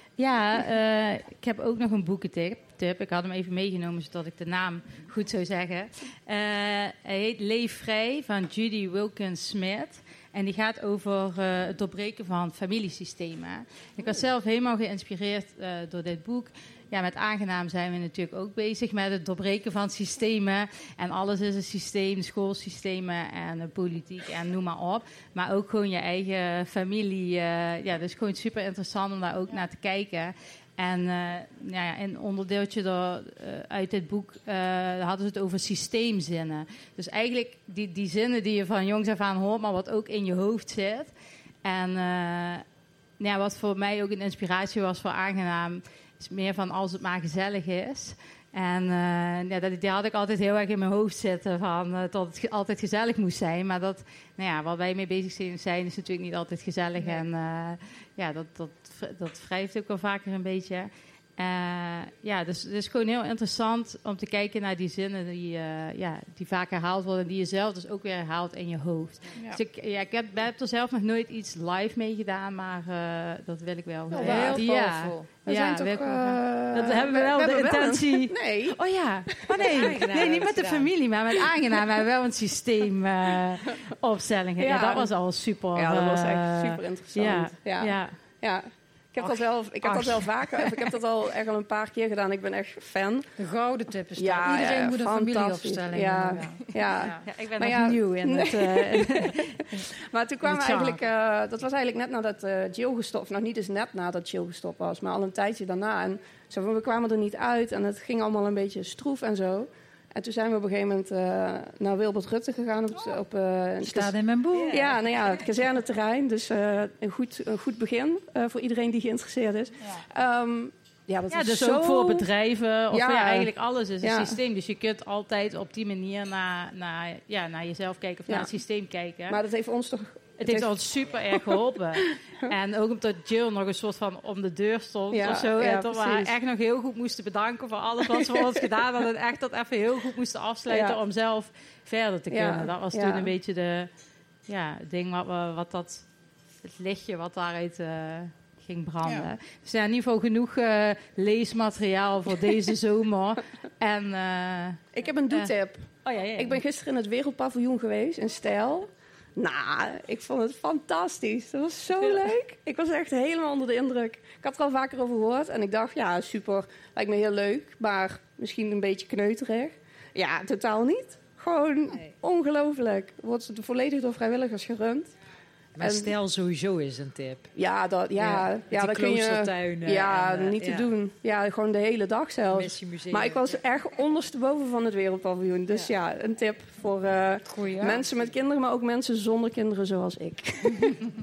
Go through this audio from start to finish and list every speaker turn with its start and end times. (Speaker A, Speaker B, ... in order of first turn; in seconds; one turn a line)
Speaker A: 0.2-41.1
Speaker A: 41.6-42.6
Speaker A: 43.2-88.1
Speaker B: 69.3-69.6
Speaker B: 74.1-75.3
Speaker C: 74.2-74.6
Speaker C: 75.5-78.8
Speaker D: 79.5-80.9
Speaker C: 84.6-85.1
Speaker C: 85.7-93.3
Speaker B: 89.2-90.3
Speaker B: 93.4-97.2
Speaker C: 94.2-114.1
Speaker A: 96.7-99.9
Speaker A: 100.4-101.0
Speaker B: 113.8-114.8
Speaker D: 114.5-115.2
Speaker C: 114.7-122.3
Speaker A: 121.3-129.4
Speaker C: 122.9-123.5
Speaker C: 124.0-124.4
Speaker C: 129.3-130.7
Speaker A: 130.4-143.9
Speaker C: 131.3-132.2
Speaker C: 135.1-136.3
Speaker C: 138.1-138.5
Speaker C: 140.7-141.0
Speaker C: 142.3-143.3
Speaker A: 144.5-146.1
Speaker A: 146.6-155.5
Speaker C: 154.9-175.1
Speaker A: 156.0-156.6
Speaker D: 175.8-177.5
Speaker C: 175.8-176.1
Speaker C: 177.6-191.0
Speaker D: 178.2-180.9
Speaker D: 182.5-183.6
Speaker B: 187.4-188.0